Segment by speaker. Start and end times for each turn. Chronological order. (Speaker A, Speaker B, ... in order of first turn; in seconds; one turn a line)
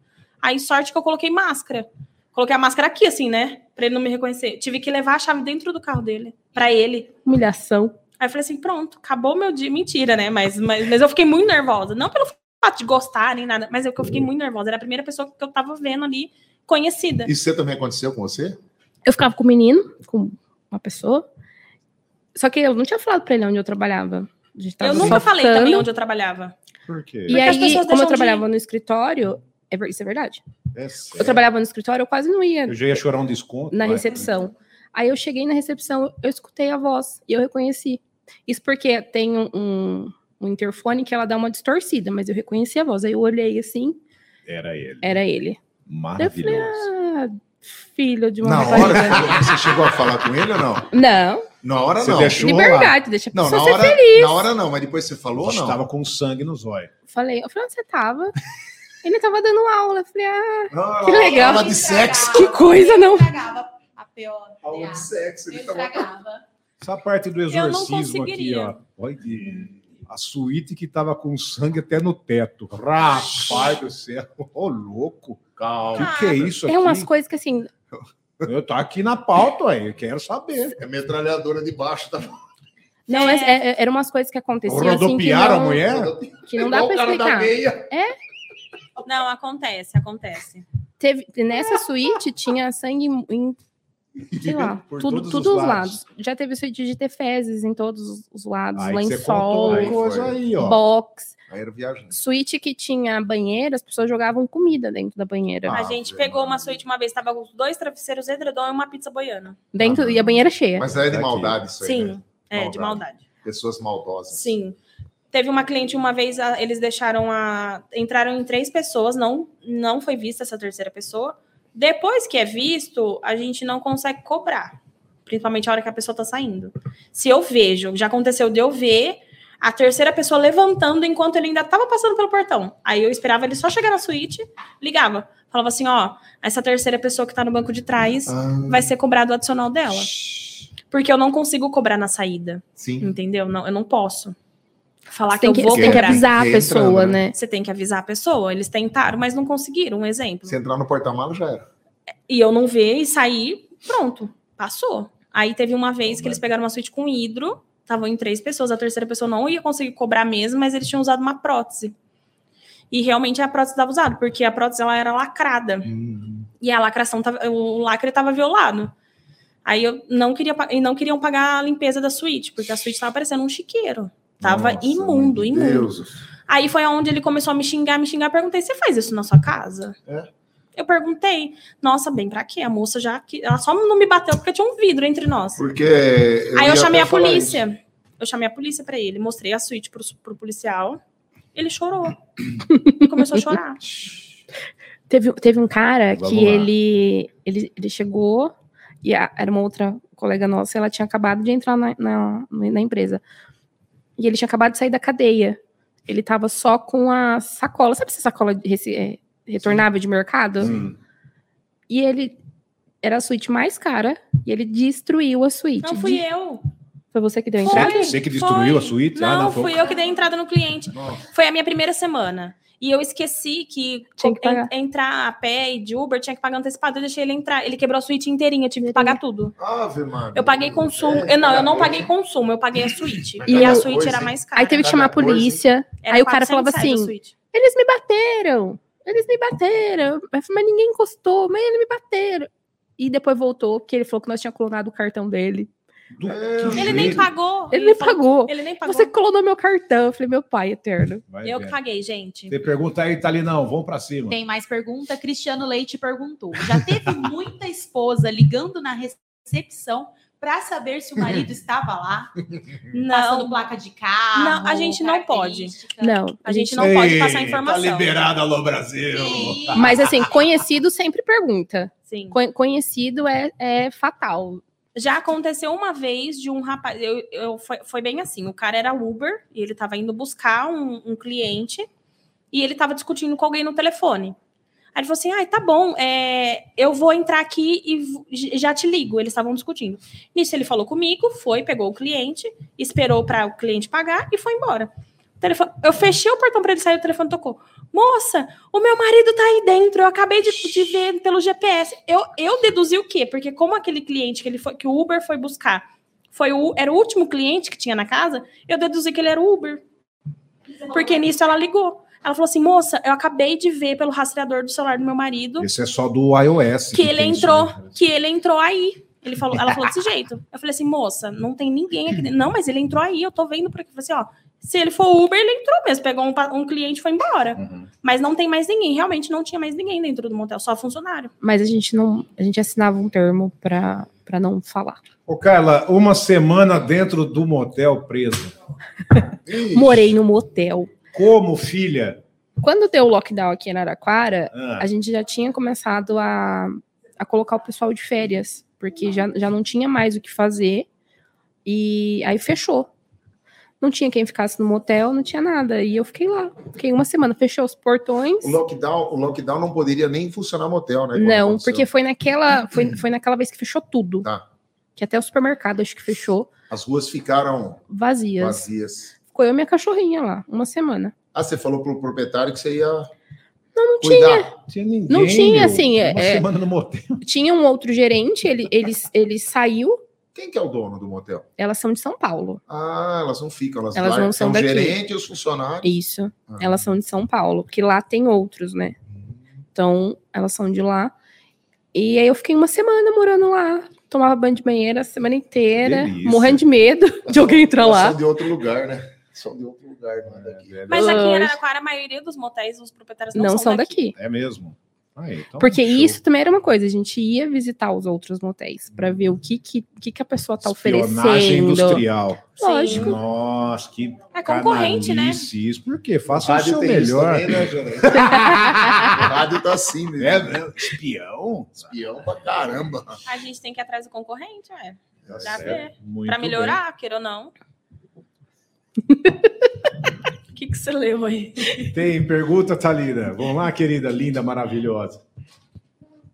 Speaker A: 0.4-7.1
Speaker B: 7.2-7.9
Speaker A: 8.2-17.3
Speaker C: 17.2-18.6
Speaker B: 19.1-21.2
Speaker B: 22.3-25.9
Speaker A: 24.8-26.5
Speaker D: 24.8-25.2
Speaker D: 26.9-27.4
Speaker B: 27.3-30.4
Speaker A: 27.3-28.4
Speaker D: 30.7-31.4
Speaker B: 31.1-33.0
Speaker D: 32.7-34.2
Speaker B: 33.7-44.0
Speaker D: 44.5-45.2
Speaker B: 45.0-45.6
Speaker D: 45.9-46.9
Speaker B: 46.2-49.3
Speaker C: 48.4-50.9
Speaker D: 48.6-49.5
Speaker B: 50.9-51.5
Speaker C: 51.6-52.4
Speaker D: 52.0-53.0
Speaker B: 52.4-54.5
Speaker C: 53.3-55.8
Speaker D: 55.4-56.9
Speaker B: 57.1-58.3
Speaker B: 59.0-63.3
Speaker C: 60.7-62.5
Speaker E: 61.1-66.4
Speaker C: 64.6-66.1
Speaker D: 66.8-75.4
Speaker A: 67.5-68.7
Speaker E: 73.0-73.8
Speaker C: 75.6-76.5
Speaker D: 75.9-77.1
Speaker A: 76.0-76.5
Speaker B: 76.7-77.7
Speaker C: 78.0-78.5
Speaker D: 78.5-80.8
Speaker C: 80.8-82.4
Speaker B: 83.1-85.8
Speaker A: 83.1-83.6
Speaker D: 84.6-86.1
Speaker C: 85.8-87.9
Speaker B: 86.5-88.1
Speaker A: 89.0-90.6
Speaker B: 91.0-93.6
Speaker B: 94.4-100.0
Speaker D: 94.5-96.0
Speaker D: 98.8-100.8
Speaker C: 99.7-100.3
Speaker B: 100.6-101.3
Speaker C: 101.5-102.1
Speaker B: 102.1-105.8
Speaker C: 105.7-106.8
Speaker A: 105.7-109.6
Speaker B: 109.7-110.8
Speaker C: 109.8-114.5
Speaker D: 110.9-111.6
Speaker A: 111.8-113.2
Speaker A: 114.3-114.8
Speaker A: 115.3-140.1
Speaker C: 138.3-138.9
Speaker A: 140.9-144.3
Speaker C: 142.8-143.1
Speaker A: 145.1-146.2
Speaker B: 145.4-147.3
Speaker C: 145.7-147.2
Speaker A: 147.3-150.6
Speaker C: 150.5-151.7
Speaker A: 152.3-161.9
Speaker D: 156.1-156.4
Speaker A: 162.9-165.9
Speaker C: 165.8-166.5
Speaker A: 166.6-168.9
Speaker A: 169.6-175.9
Speaker C: 174.4-176.2
Speaker A: 176.5-179.9
Speaker A: 180.8-185.6
Speaker C: 185.6-187.6
Speaker A: 186.5-191.0
Speaker A: 191.5-192.2
Speaker B: 192.7-193.0
Speaker A: 192.9-193.8
Speaker B: 195.1-203.2
Speaker D: 196.1-196.7
Speaker B: 204.2-210.7
Speaker D: 210.6-210.9
Speaker B: 211.9-212.4
Speaker B: 213.0-216.2
Speaker A: 215.8-216.6
Speaker B: 217.1-218.1
Speaker A: 217.6-229.5
Speaker D: 217.7-219.8
Speaker C: 220.9-221.2
Speaker B: 224.2-224.7
Speaker B: 228.8-229.2
Speaker C: 229.6-232.1
Speaker A: 230.3-234.9
Speaker C: 233.4-235.6
Speaker B: 233.5-233.8
Speaker B: 234.5-245.7
Speaker A: 236.0-237.3
Speaker D: 246.2-247.3
Speaker C: 246.2-247.3
Speaker A: 246.7-249.1
Speaker B: 247.7-251.2
Speaker D: 251.3-251.7
Speaker A: 251.4-252.6
Speaker D: 252.5-254.3
Speaker E: 254.3-262.3
Speaker A: 262.9-263.6
Speaker E: 263.1-266.2
Speaker A: 264.3-265.8
Speaker B: 266.0-266.9
Speaker A: 266.4-268.1
Speaker D: 266.8-270.3
Speaker E: 269.1-269.9
Speaker B: 269.7-274.6
Speaker A: 272.1-272.3
Speaker A: 274.9-281.9
Speaker A: 282.5-284.4
Speaker A: 284.9-309.8
Speaker A: 310.9-315.7
Speaker D: 315.6-318.0
Speaker A: 316.9-331.3
Speaker D: 327.5-327.9
Speaker B: 331.4-335.0
Speaker D: 335.3-338.5
Speaker C: 339.4-340.0
Speaker B: 339.7-340.9
Speaker D: 341.1-342.2
Speaker B: 342.6-350.9
Speaker D: 344.5-344.9
Speaker B: 351.6-352.9
Speaker B: 353.8-358.6
Speaker C: 358.4-361.9
Speaker B: 361.1-364.3
Speaker B: 365.0-366.5
Speaker C: 366.7-367.8
Speaker B: 367.9-368.6
Speaker C: 368.4-369.1
Speaker B: 369.3-371.1
Speaker C: 371.3-373.1
Speaker B: 373.8-374.5
Speaker C: 374.0-374.5
Speaker D: 374.7-377.2
Speaker B: 375.1-376.5
Speaker B: 377.2-380.0
Speaker C: 380.3-381.5
Speaker B: 381.6-382.6
Speaker C: 382.7-385.9
Speaker B: 383.9-385.0
Speaker B: 385.8-388.9
Speaker C: 386.5-386.7
Speaker B: 389.7-391.1
Speaker B: 391.9-398.2
Speaker D: 395.8-396.6
Speaker C: 397.3-400.8
Speaker D: 400.2-401.3
Speaker A: 400.9-404.1
Speaker B: 400.9-401.6
Speaker B: 403.3-404.1
Speaker D: 404.1-406.2
Speaker B: 405.6-412.0
Speaker D: 410.6-419.4
Speaker B: 412.6-413.1
Speaker A: 412.6-413.2
Speaker A: 414.3-415.5
Speaker C: 416.3-420.6
Speaker D: 420.2-421.9
Speaker C: 421.8-423.1
Speaker A: 423.2-427.5
Speaker C: 425.2-425.8
Speaker D: 425.3-426.8
Speaker A: 430.5-431.9
Speaker D: 431.9-435.2